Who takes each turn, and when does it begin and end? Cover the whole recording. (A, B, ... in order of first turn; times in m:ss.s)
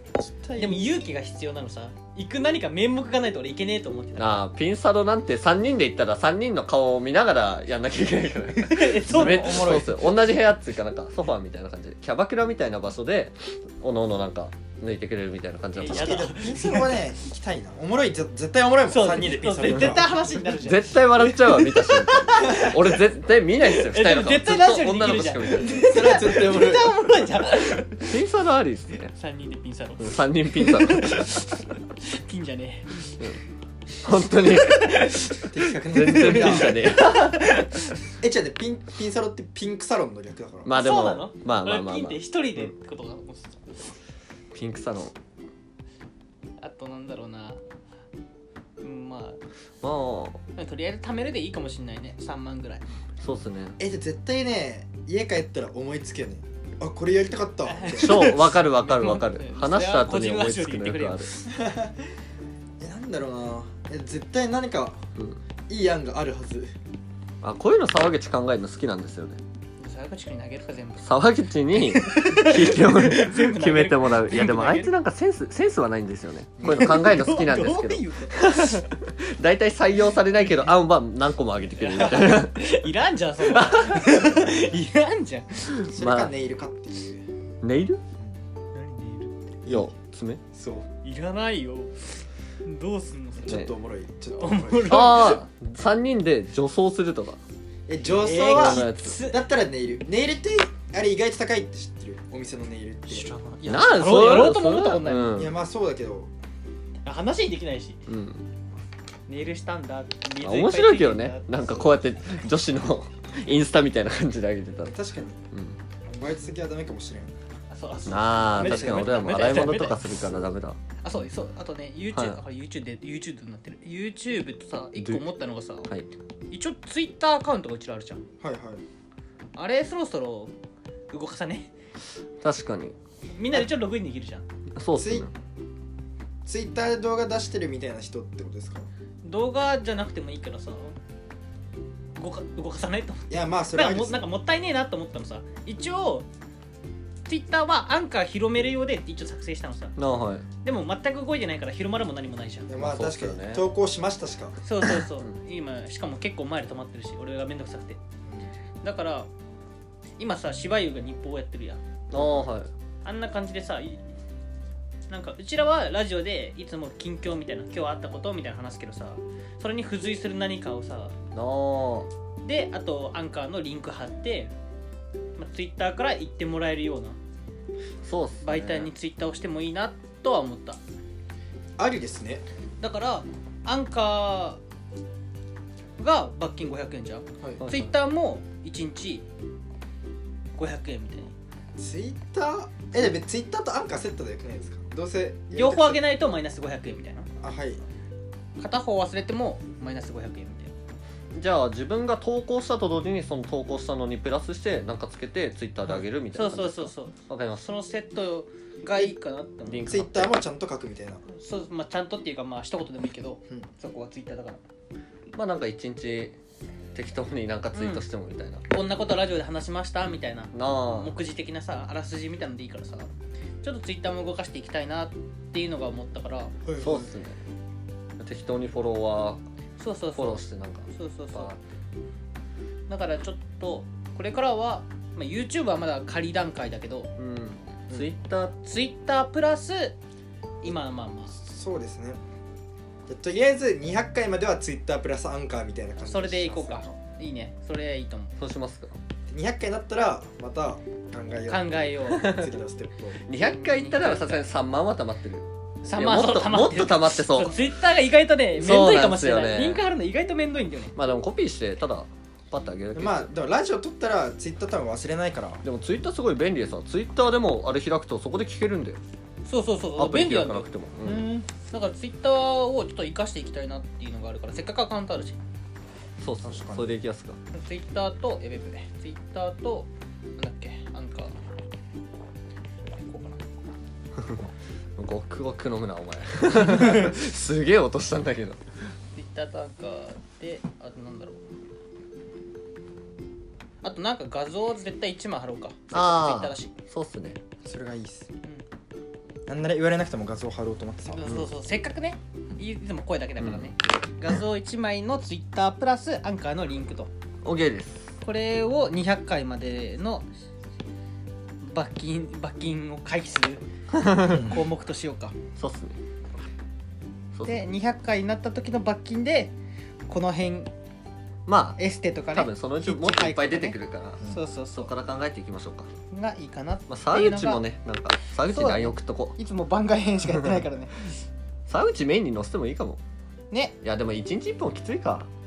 0:00.2-0:00.8 A
0:00.6-0:04.4 B
0:04.2-0:16.3 C
0:08.6-0:09.9 B
0:09.1-0:10.0 A
0:15.8-0:17.0 B
0:15.8-0:20.1 A
0:18.9-0:23.0 B
0:19.7-0:20.0 C
0:20.5-0:25.8 C
0:23.6-0:28.2 B
0:25.7-0:27.0 A
0:28.0-0:29.1 C
0:29.1-0:33.4 B
0:30.0-0:31.4 C
0:34.0-0:37.7 C
0:34.4-0:38.0 B
0:35.5-0:37.0 A
0:38.2-0:40.8 A
0:40.6-0:42.7 C
0:40.8-0:43.8 B
0:44.5-0:45.1 C
0:46.6-0:47.6 B
0:48.8-0:49.4 B
0:49.8-0:50.4 C
0:50.6-0:52.9 B
0:53.2-0:53.8 C
0:53.8-0:58.3 A
0:57.7-1:01.5 B
0:57.9-1:01.3 C
1:01.5-1:02.1 A
1:02.8-1:05.0 A
1:05.7-1:06.7 A
1:07.4-1:09.4 C
1:09.8-1:11.1 B
1:11.0-1:22.7 C
1:11.7-1:14.9 B
1:16.6-1:17.0 A
1:16.6-1:18.8 B
1:21.8-1:25.9 B
1:23.4-1:24.2 C
1:25.8-1:26.3 C
1:25.9-1:27.3 A
1:27.6-1:28.0 C
1:28.7-1:29.6 B
1:29.6-1:29.9 A
1:29.7-1:30.4 C
1:30.5-1:30.9 A
1:31.0-1:33.7 B
1:33.4-1:35.2 A
1:33.5-1:33.7 C
1:34.3-1:35.4 B
1:34.9-1:37.4 C
1:37.9-1:43.3 A
1:38.1-1:39.4 B
1:38.4-1:39.2 C
1:43.1-1:45.4 B
1:43.6-1:45.6 C
1:45.3-1:46.3 A
1:47.0-1:48.0 B
1:48.1-1:48.4 C
1:49.3-1:51.8 B
1:50.4-1:55.0 C
1:54.9-1:55.4 A
1:55.5-1:55.8 C
1:56.1-1:57.3 A
1:57.7-2:00.0 B
1:58.1-2:00.8 C
1:58.6-1:59.5 A
2:01.0-2:05.9 B
2:02.1-2:02.4 C
2:05.0-2:05.3 C
2:06.5-2:08.2 B
2:08.4-2:08.8 A
2:09.6-2:10.5 B
2:11.1-2:11.7 B
2:12.4-2:13.0 C
2:13.4-2:14.5 B
2:14.8-2:15.3 C
2:15.0-2:15.3 A
2:16.4-2:18.9 A
2:19.2-2:21.0 B
2:22.2-2:26.3 B
2:23.3-2:24.2 A
2:27.3-2:30.0 B
2:30.0-2:30.5 C
2:30.6-2:32.8 B
2:32.7-2:34.6 A
2:32.8-2:33.7 C
2:34.6-2:38.0 B
2:38.2-2:38.5 A
2:38.8-2:39.3 B
2:40.2-2:41.8 B
2:42.1-2:42.7 C
2:42.1-2:42.5 A
2:43.0-2:44.0 B
2:45.1-2:51.2 B
2:51.3-2:52.1 C
2:52.4-2:54.5 B
2:55.4-2:57.2 B
2:58.0-2:58.9 C
2:58.4-3:00.8 B
3:01.8-3:02.4 A
3:02.8-3:04.6 B
3:06.0-3:09.2 B
3:07.6-3:07.9 C
3:10.6-3:11.3 B
3:11.8-3:16.0 A
3:15.5-3:17.3 B
3:17.4-3:17.8 A
3:18.6-3:20.7 B
3:21.3-3:27.7 C
3:25.9-3:30.0 B
3:29.7-3:30.4 C
3:29.8-3:31.2 A
3:31.3-3:34.6 B
3:35.3-3:36.4 C
3:36.9-3:38.6 C
3:37.7-3:38.0 B
3:38.7-3:43.1 B
3:40.5-3:41.2 C
3:43.6-3:46.6 B
3:46.6-3:47.1 A
3:46.8-3:47.4 C
3:48.2-3:49.4 C
3:49.8-3:51.5 B
3:50.2-3:51.6 C
3:52.9-3:57.1 B
3:57.2-3:58.6 C
3:58.6-4:00.0 B
4:00.6-4:01.4 B
4:01.3-4:02.2 A
4:03.1-4:07.0 A
4:06.0-4:08.4 B
4:08.4-4:09.0 C
4:09.3-4:13.2 A
4:11.5-4:12.4 B
4:12.1-4:12.5 C
4:13.3-4:17.6 C
4:13.4-4:14.5 B
4:15.8-4:20.9 B
4:18.6-4:19.8 C
4:21.0-4:23.3 C
4:22.9-4:25.6 A
4:25.6-4:29.0 C
4:29.5-4:30.7 B
4:30.0-4:31.3 C
4:31.0-4:31.5 A
4:31.5-4:35.4 B
4:36.2-4:37.4 C
4:36.4-4:36.9 A
4:37.5-4:41.4 B
4:42.8-4:43.4 B
4:44.2-4:48.6 C
4:46.6-4:47.1 B
4:49.2-4:51.4 B
4:53.8-4:56.7 B
4:55.9-4:57.4 C
4:57.6-4:58.3 A
4:59.5-5:01.5 A
5:01.1-5:07.1 B
5:03.4-5:03.7 C
5:07.4-5:08.1 C
5:08.2-5:10.3 B
5:11.6-5:13.7 B
5:13.9-5:14.6 C
5:14.3-5:15.4 B
5:14.3-5:14.6 A
5:15.6-5:16.0 C
5:17.3-5:17.6 C
5:17.5-5:19.5 B
5:20.1-5:20.7 B
5:21.5-5:21.8 C
5:21.8-5:24.9 B
5:22.3-5:25.9 C
5:26.1-5:27.6 B
5:26.9-5:29.4 C
5:28.5-5:31.3 B
5:30.3-5:30.6 C
5:31.7-5:33.0 C
5:33.5-5:33.8 B
5:33.8-5:35.3 C